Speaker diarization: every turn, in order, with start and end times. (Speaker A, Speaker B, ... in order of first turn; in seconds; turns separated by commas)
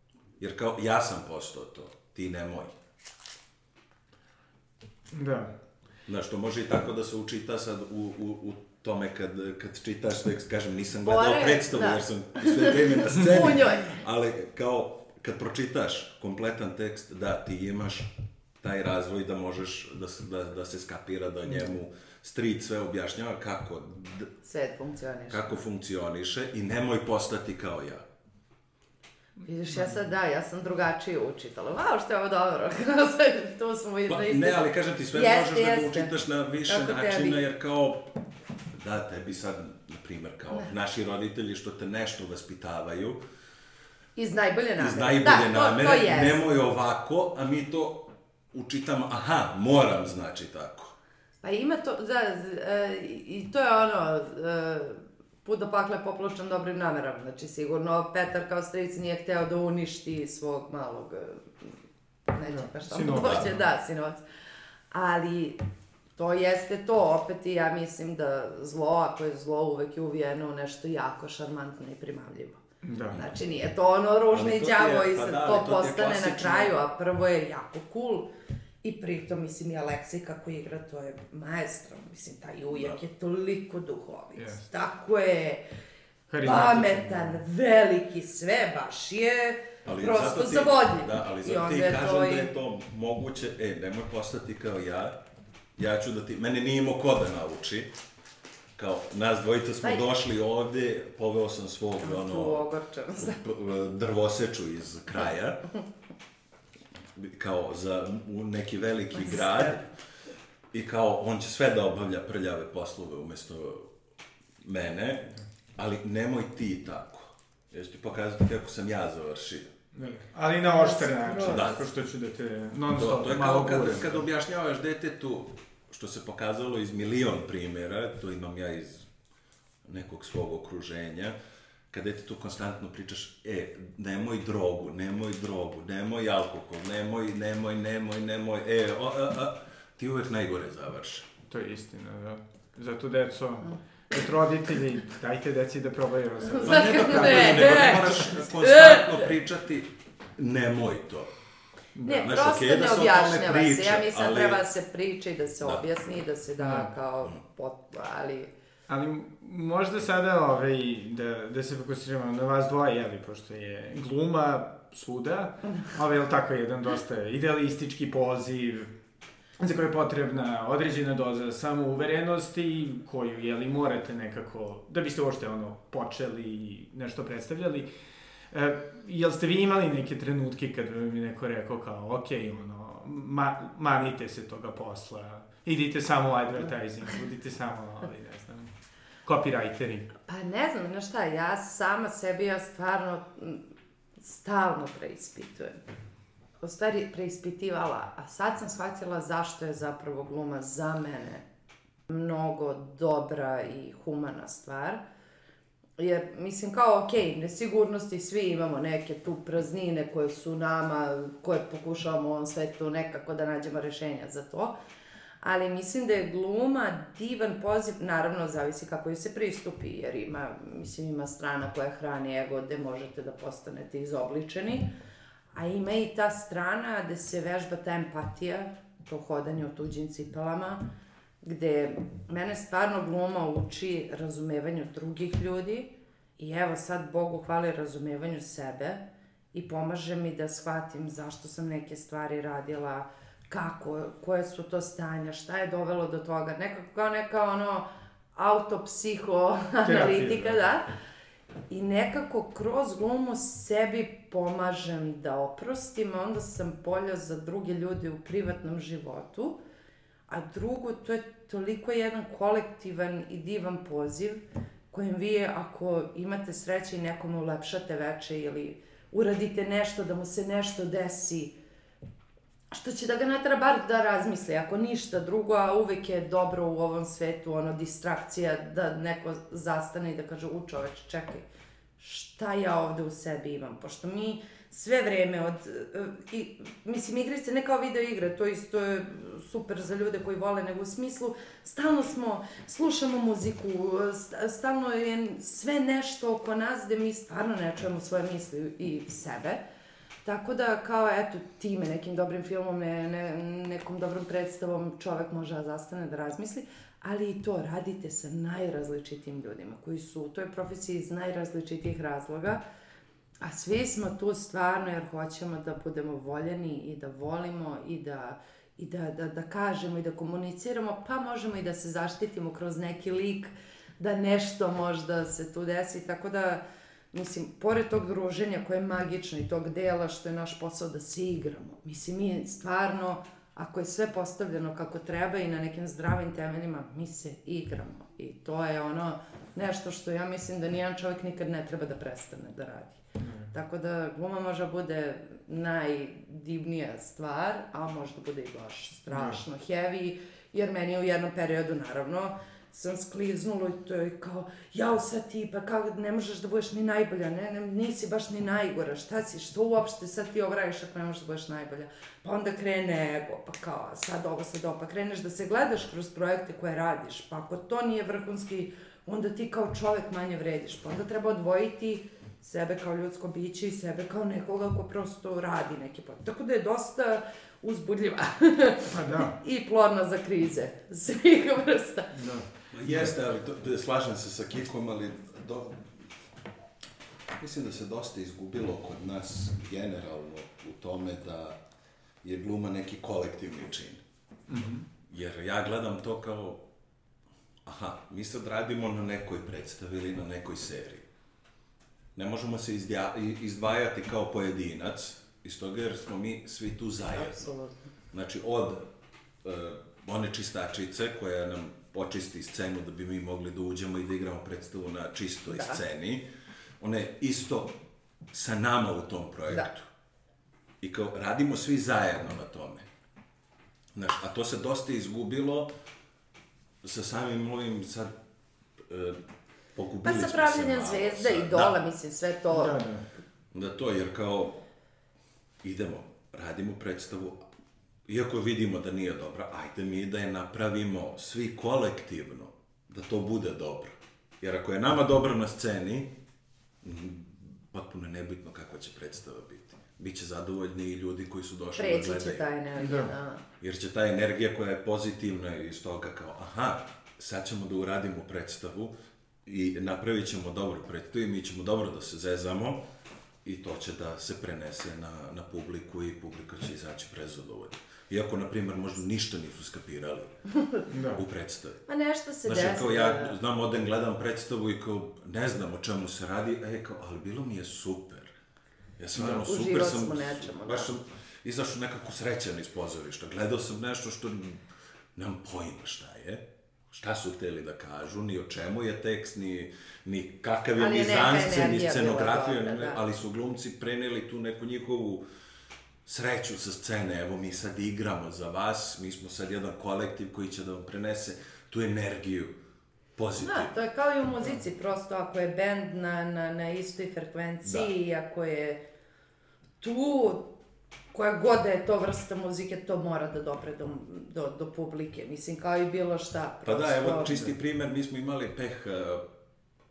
Speaker A: 0.4-2.7, Speaker B: 5.1-5.5, Speaker A: 6.1-24.3, Speaker C: 11.0-14.0, Speaker C: 24.4-25.5, Speaker A: 25.3-28.0, Speaker C: 29.4-36.1, Speaker B: 29.7-30.0, Speaker A: 34.1-38.1, Speaker C: 36.6-37.4, Speaker A: 38.8-43.2, Speaker C: 44.1-46.4, Speaker A: 44.8-50.9, Speaker C: 51.4-61.7, Speaker C: 62.3-64.2, Speaker B: 62.5-63.6, Speaker A: 63.1-63.4, Speaker C: 64.9-65.6, Speaker C: 66.2-72.6, Speaker B: 72.8-73.2, Speaker C: 73.1-78.3, Speaker A: 74.3-76.8, Speaker C: 78.8-85.6, Speaker B: 84.3-84.6, Speaker B: 86.3-87.3, Speaker C: 86.4-92.5, Speaker A: 89.8-95.2, Speaker A: 95.8-97.9, Speaker A: 98.8-105.6, Speaker C: 102.0-103.4, Speaker A: 107.2-109.8, Speaker C: 109.2-109.8, Speaker A: 110.7-113.9, Speaker A: 114.6-119.7, Speaker B: 119.9-124.2, Speaker C: 120.6-121.8, Speaker A: 121.4-121.8, Speaker A: 122.9-129.1, Speaker A: 129.8-131.3, Speaker A: 131.9-141.3, Speaker B: 141.5-148.0, Speaker C: 146.5-149.3, Speaker A: 146.6-151.3, Speaker B: 151.9-152.2, Speaker C: 152.1-158.5, Speaker A: 152.1-154.6, Speaker B: 156.6-156.9, Speaker B: 158.9-168.9, Speaker B: 169.6-177.9, Speaker B: 178.5-188.7, Speaker B: 189.2-190.1, Speaker C: 190.3-193.6, Speaker C: 194.2-195.8, Speaker C: 196.6-201.4, Speaker C: 202.1-205.0, Speaker C: 206.0-214.8, Speaker C: 215.4-224.9, Speaker C: 225.5-230.8, Speaker C: 231.4-239.0, Speaker C: 239.5-250.8, Speaker B: 249.8-250.6, Speaker C: 251.7-259.6, Speaker C: 260.3-264.4, Speaker C: 264.9-271.5, Speaker C: 272.7-281.4, Speaker C: 282.0-299.6, Speaker C: 300.2-312.6, Speaker C: 313.4-326.6, Speaker C: 327.1-343.0, Speaker B: 343.2-343.5, Speaker C: 343.5-382.2, Speaker B: 349.1-349.4, Speaker B: 378.9-379.3, Speaker B: 382.1-383.1, Speaker A: 382.7-385.8, Speaker A: 387.4-391.6, Speaker A: 392.2-394.0, Speaker B: 394.5-394.9, Speaker A: 395.1-396.6, Speaker A: 397.6-401.1, Speaker A: 402.1-407.5, Speaker C: 407.1-407.8, Speaker A: 408.1-408.9, Speaker A: 409.4-416.2, Speaker A: 416.8-417.8, Speaker A: 418.3-419.9, Speaker A: 420.8-422.9, Speaker A: 423.9-425.7, Speaker A: 426.8-428.1, Speaker A: 428.9-429.2, Speaker A: 429.7-431.7, Speaker C: 430.0-432.8, Speaker B: 432.5-433.0, Speaker A: 433.5-434.6, Speaker A: 435.6-437.4, Speaker A: 438.1-446.1, Speaker A: 446.8-452.4, Speaker C: 451.8-453.4, Speaker B: 452.8-453.1, Speaker A: 453.6-458.9, Speaker A: 459.4-462.8, Speaker A: 463.4-470.3, Speaker B: 470.9-471.2, Speaker A: 471.1-471.8, Speaker C: 471.9-473.4, Speaker A: 472.4-478.3, Speaker A: 479.0-484.6, Speaker C: 479.2-480.9, Speaker A: 485.1-495.2, Speaker C: 490.8-493.0, Speaker A: 496.1-502.6, Speaker A: 503.1-503.7, Speaker C: 503.4-508.8, Speaker A: 507.6-507.9, Speaker C: 509.8-510.5, Speaker C: 511.1-517.5, Speaker A: 516.6-519.2